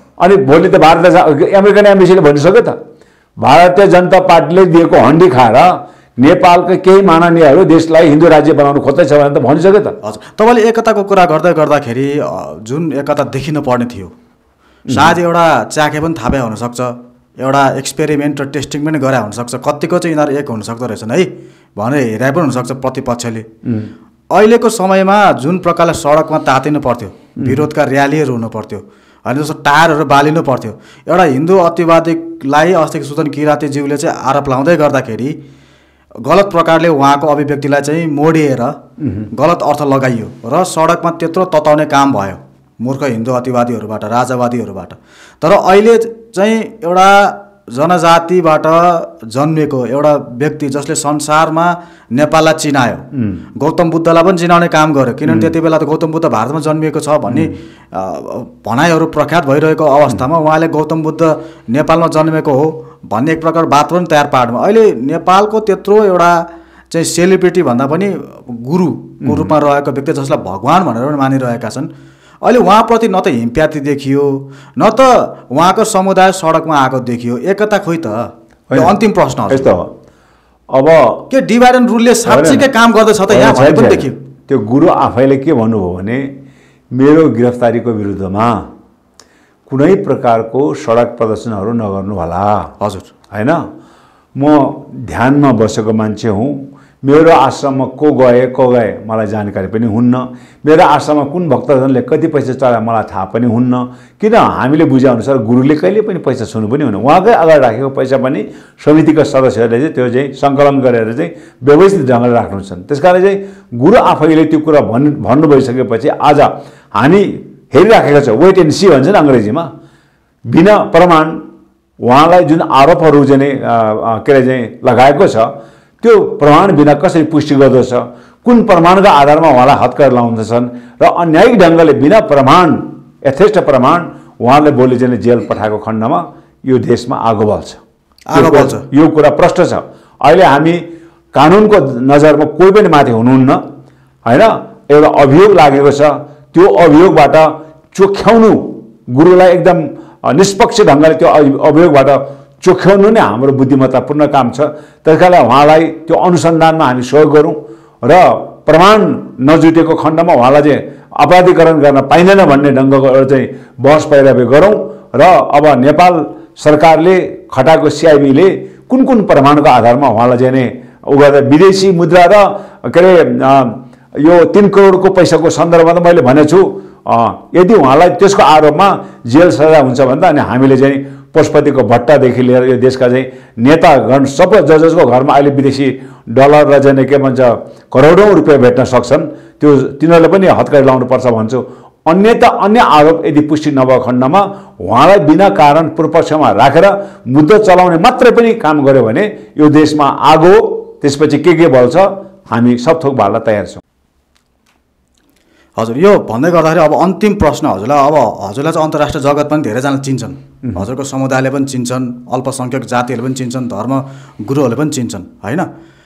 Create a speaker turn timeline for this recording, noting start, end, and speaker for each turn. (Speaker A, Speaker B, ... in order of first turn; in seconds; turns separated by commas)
Speaker A: 0.2-2.8, Speaker A: 3.4-10.0, Speaker B: 10.0-14.1, Speaker A: 14.9-15.2, Speaker B: 14.9-23.5, Speaker A: 23.6-23.9, Speaker B: 24.3-35.4, Speaker A: 27.4-27.7, Speaker B: 36.2-38.8, Speaker A: 39.0-39.3, Speaker B: 39.3-71.9, Speaker A: 53.1-53.4, Speaker A: 55.3-55.5, Speaker A: 57.3-57.5, Speaker A: 69.2-69.5, Speaker B: 72.4-79.7, Speaker A: 78.7-79.0, Speaker A: 79.5-79.9, Speaker A: 80.7-81.2, Speaker B: 81.3-84.2, Speaker A: 82.2-82.7, Speaker A: 83.3-86.3, Speaker A: 86.9-88.7, Speaker A: 89.7-92.7, Speaker B: 92.8-93.1, Speaker A: 93.3-93.6, Speaker A: 94.3-119.7, Speaker A: 120.5-121.4, Speaker A: 122.0-137.8, Speaker B: 138.3-138.8, Speaker A: 138.3-140.8, Speaker A: 141.3-143.6, Speaker A: 144.2-203.8, Speaker B: 205.8-215.7